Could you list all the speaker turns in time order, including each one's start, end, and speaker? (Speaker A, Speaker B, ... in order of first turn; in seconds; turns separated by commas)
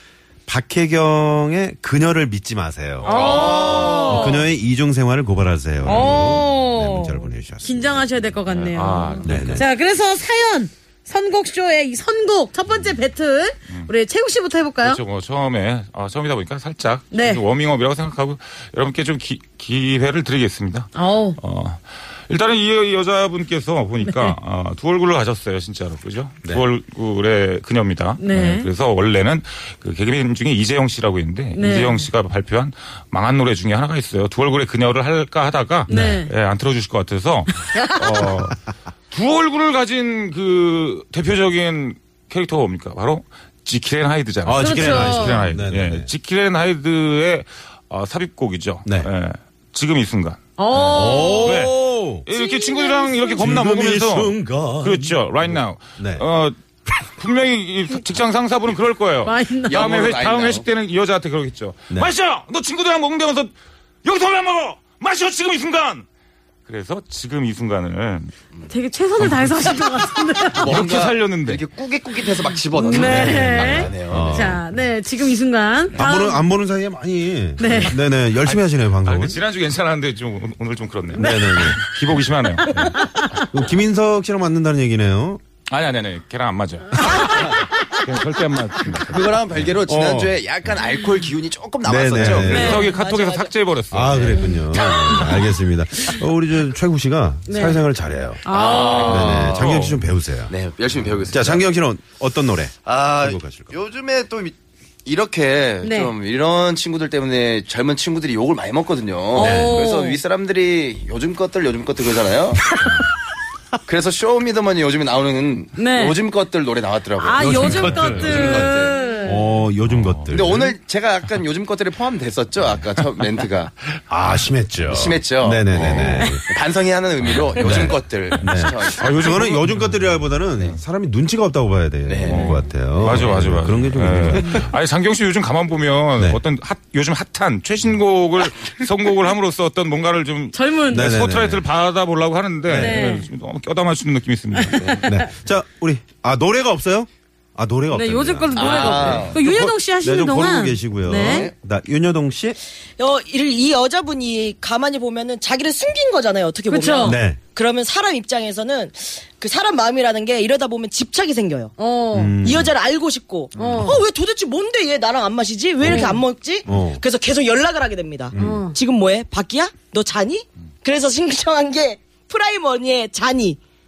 Speaker A: 0.5-8.3, Speaker B: 3.0-4.4, Speaker C: 3.0-4.2, Speaker B: 5.8-15.0, Speaker D: 8.5-9.6, Speaker A: 9.2-9.7, Speaker D: 14.8-38.6, Speaker B: 17.1-17.4, Speaker B: 20.9-21.4, Speaker B: 24.0-24.4, Speaker B: 28.2-28.7, Speaker B: 31.5-32.0, Speaker B: 35.9-36.3, Speaker A: 35.9-36.2, Speaker B: 37.7-38.0, Speaker D: 39.1-63.5, Speaker A: 44.4-46.1, Speaker B: 44.6-45.4, Speaker B: 50.6-51.7, Speaker A: 50.7-52.2, Speaker B: 52.3-53.4, Speaker A: 53.4-56.2, Speaker B: 59.2-59.8, Speaker C: 59.6-60.6, Speaker D: 64.0-66.0, Speaker D: 66.7-68.3, Speaker B: 68.7-70.7, Speaker D: 69.2-69.8, Speaker C: 70.6-74.6, Speaker D: 70.6-71.6, Speaker B: 72.7-76.4, Speaker A: 74.0-74.6, Speaker A: 75.9-79.4, Speaker B: 77.6-78.0, Speaker D: 78.4-82.9, Speaker A: 81.1-81.8, Speaker B: 81.2-81.7, Speaker B: 82.9-83.4, Speaker A: 83.5-85.4, Speaker D: 85.7-89.4, Speaker C: 87.1-87.7, Speaker C: 89.0-92.7, Speaker A: 89.7-90.3, Speaker A: 91.8-92.9, Speaker D: 92.2-94.5, Speaker B: 92.5-92.9, Speaker E: 92.7-93.5, Speaker A: 93.9-98.4, Speaker B: 97.5-97.8, Speaker B: 98.4-99.2, Speaker C: 98.5-99.7, Speaker D: 98.8-100.0, Speaker A: 99.1-100.5, Speaker C: 100.5-101.6, Speaker A: 101.3-103.7, Speaker C: 102.8-112.7, Speaker B: 105.8-106.1, Speaker B: 109.3-110.2, Speaker A: 109.4-109.8, Speaker C: 113.9-119.0, Speaker B: 115.8-116.2, Speaker B: 117.2-119.5, Speaker A: 117.4-120.8, Speaker D: 119.8-120.3, Speaker C: 120.3-123.7, Speaker A: 124.1-126.4, Speaker C: 124.9-129.5, Speaker D: 125.7-126.3, Speaker D: 127.3-129.9, Speaker A: 127.6-134.7, Speaker C: 132.1-132.5, Speaker D: 132.2-145.0, Speaker B: 134.4-134.6, Speaker B: 140.5-141.1, Speaker A: 140.9-141.6, Speaker A: 142.7-143.1, Speaker B: 142.7-143.3, Speaker B: 144.5-145.3, Speaker A: 145.0-152.6, Speaker B: 147.9-151.5, Speaker C: 148.5-149.4, Speaker C: 151.1-151.5, Speaker E: 153.0-161.7, Speaker B: 156.7-157.2, Speaker A: 157.0-157.4, Speaker B: 161.8-162.4, Speaker A: 162.1-162.7, Speaker E: 162.4-173.6, Speaker B: 163.6-164.0, Speaker A: 165.8-167.0, Speaker B: 165.8-166.2, Speaker A: 168.3-168.6, Speaker B: 168.4-168.8